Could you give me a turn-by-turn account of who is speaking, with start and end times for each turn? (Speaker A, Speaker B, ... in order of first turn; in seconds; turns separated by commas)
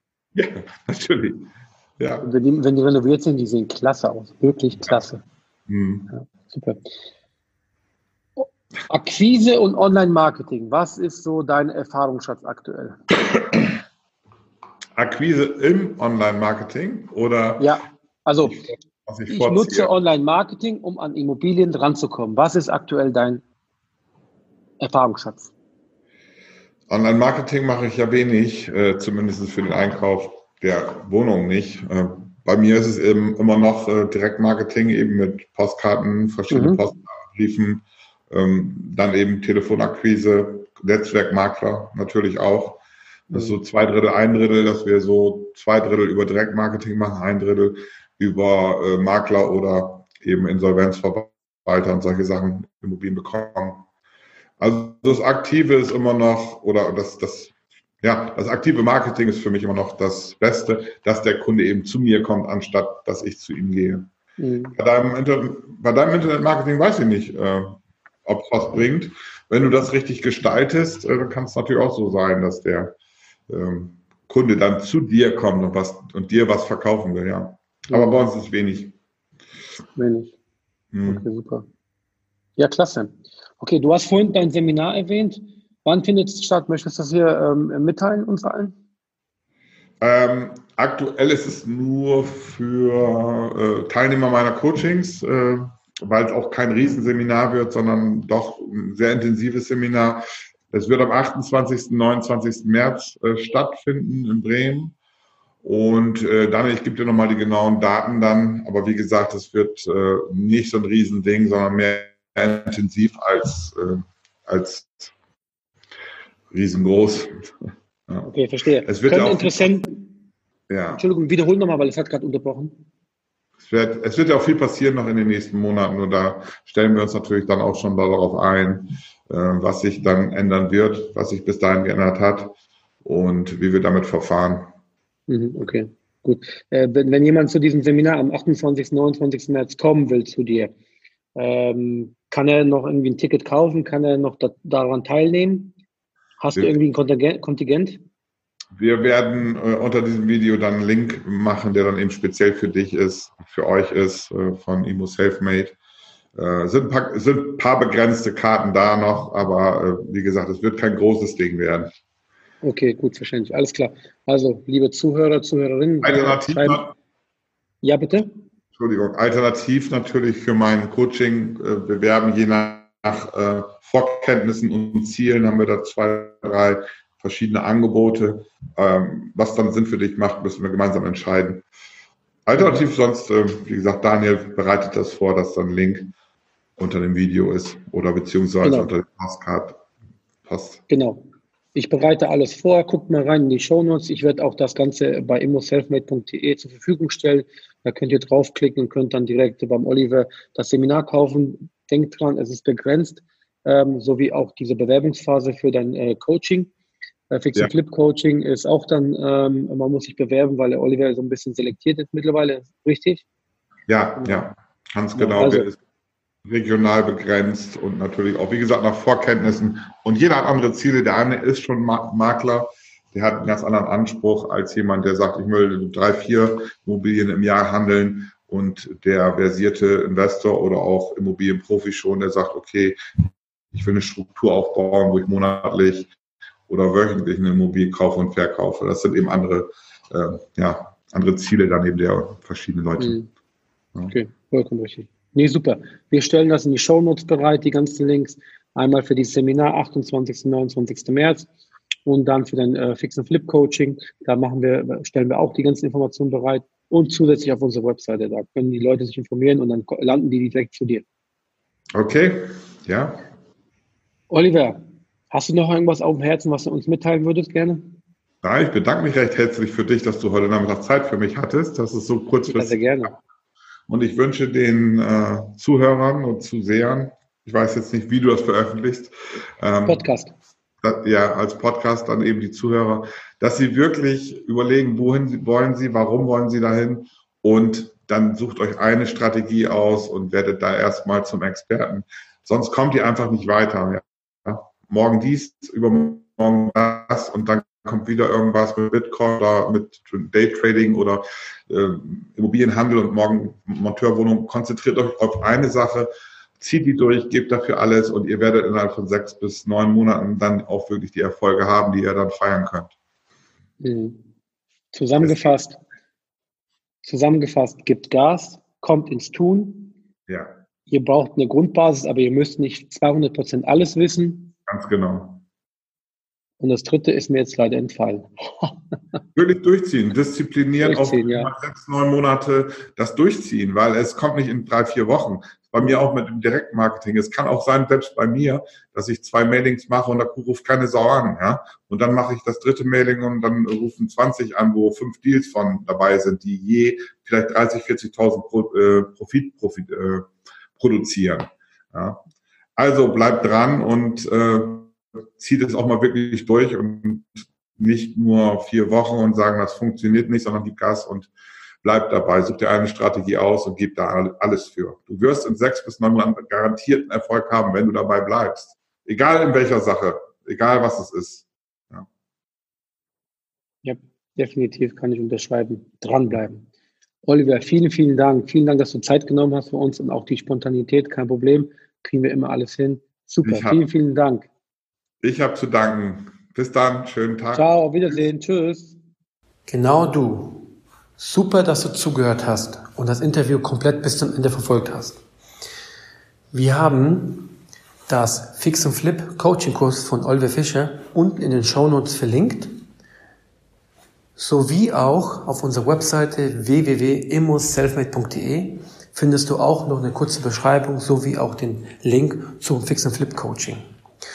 Speaker A: 0.3-2.3, Speaker B: 2.2-5.2, Speaker A: 5.7-6.1, Speaker B: 6.1-6.8, Speaker B: 8.4-12.9, Speaker A: 14.9-17.8, Speaker B: 17.6-18.6, Speaker A: 18.4-19.9, Speaker B: 19.3-23.4, Speaker B: 24.8-25.5, Speaker A: 26.9-42.8, Speaker B: 36.5-36.8, Speaker A: 43.3-53.8, Speaker A: 54.6-64.1, Speaker B: 64.4-64.7, Speaker A: 64.7-72.9, Speaker A: 73.5-78.9, Speaker B: 77.9-78.2, Speaker B: 80.0-80.3, Speaker A: 80.9-81.2, Speaker B: 81.1-81.6, Speaker B: 82.6-88.7, Speaker A: 90.0-104.9, Speaker A: 105.6-115.1, Speaker A: 116.5-117.5, Speaker B: 118.2-120.0, Speaker A: 118.8-119.9, Speaker A: 120.7-121.0, Speaker B: 120.9-122.8, Speaker A: 123.6-134.7, Speaker B: 135.3-140.7, Speaker B: 141.3-145.7, Speaker B: 146.4-148.0, Speaker A: 148.8-155.8, Speaker A: 156.3-161.9, Speaker B: 162.6-166.8, Speaker A: 166.0-166.9, Speaker B: 167.8-168.3, Speaker A: 168.7-181.6, Speaker A: 182.4-186.1, Speaker A: 186.8-189.8, Speaker B: 188.6-188.9, Speaker A: 190.4-190.8, Speaker B: 190.9-206.7, Speaker B: 207.3-213.2, Speaker A: 213.9-215.8, Speaker B: 215.2-215.7, Speaker A: 216.4-233.0, Speaker A: 233.7-236.1, Speaker A: 236.7-243.2, Speaker B: 244.1-251.5, Speaker B: 252.0-261.0, Speaker A: 261.9-263.2, Speaker B: 264.3-268.0, Speaker A: 268.4-273.1, Speaker B: 272.5-273.1, Speaker A: 273.9-280.1, Speaker B: 279.9-280.3, Speaker A: 280.8-312.9, Speaker B: 313.8-314.2, Speaker B: 314.9-315.8, Speaker A: 315.2-315.6, Speaker B: 317.0-319.9, Speaker A: 320.3-320.5, Speaker B: 320.9-324.5, Speaker A: 324.7-325.4, Speaker B: 326.6-328.7, Speaker A: 329.3-352.2, Speaker B: 330.8-331.5, Speaker A: 352.8-361.3, Speaker A: 361.8-372.1, Speaker B: 373.8-376.7, Speaker B: 377.2-384.5, Speaker A: 383.4-383.8, Speaker A: 385.2-388.2, Speaker B: 387.5-389.0, Speaker C: 389.7-395.2, Speaker C: 396.5-397.5, Speaker C: 398.1-402.7, Speaker C: 404.4-413.8